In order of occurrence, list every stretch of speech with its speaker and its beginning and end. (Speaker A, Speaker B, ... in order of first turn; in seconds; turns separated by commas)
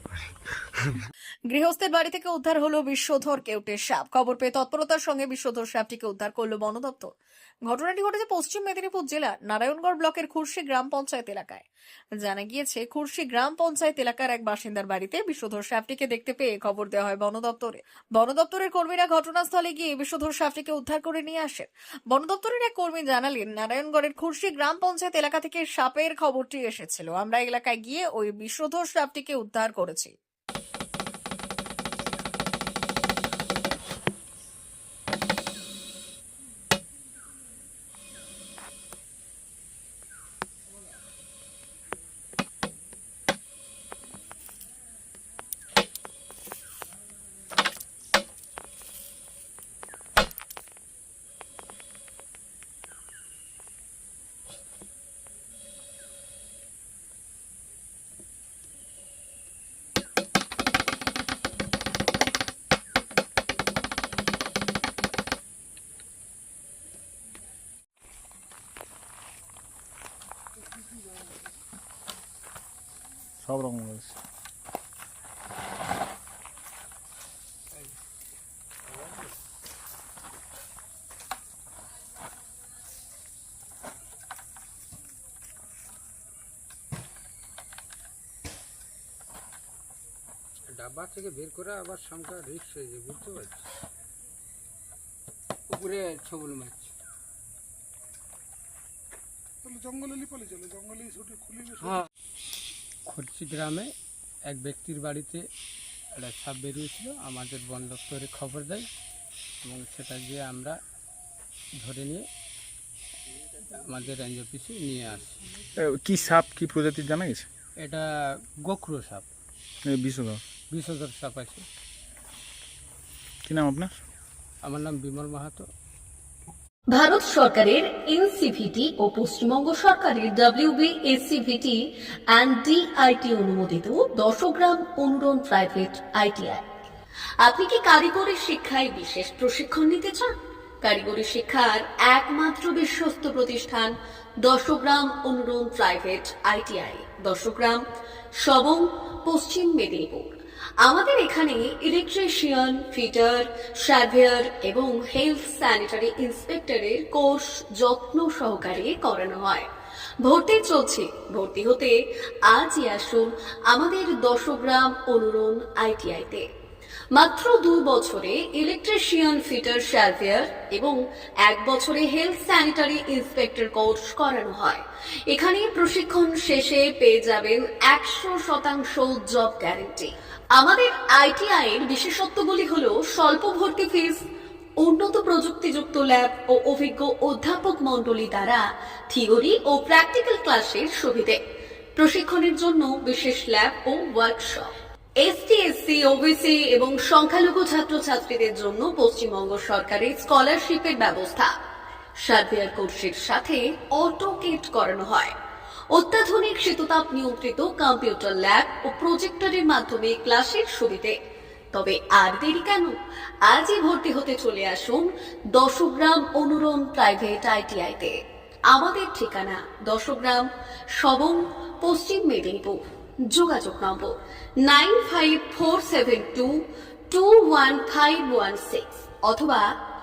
Speaker A: 1.5-7.1, Speaker A: 7.7-11.7, Speaker A: 12.2-30.1, Speaker B: 73.4-74.2, Speaker C: 90.7-93.7, Speaker C: 95.7-96.9, Speaker D: 99.7-101.8, Speaker C: 103.1-103.9, Speaker C: 104.5-105.4, Speaker C: 106.1-108.9, Speaker C: 109.6-110.8, Speaker C: 111.8-112.2, Speaker C: 113.7-115.4, Speaker B: 115.8-117.5, Speaker C: 117.8-118.1, Speaker C: 118.6-119.3, Speaker B: 119.8-120.4, Speaker C: 120.7-121.7, Speaker B: 123.4-124.0, Speaker C: 124.6-125.7, Speaker E: 126.9-136.6, Speaker E: 137.4-147.8, Speaker E: 148.4-150.3, Speaker E: 150.8-159.7, Speaker E: 160.2-161.9, Speaker E: 162.5-166.4, Speaker E: 167.1-184.2, Speaker E: 184.8-191.4, Speaker E: 192.0-201.5, Speaker E: 202.2-205.3, Speaker E: 205.9-211.2, Speaker E: 211.7-218.2, Speaker E: 218.7-229.7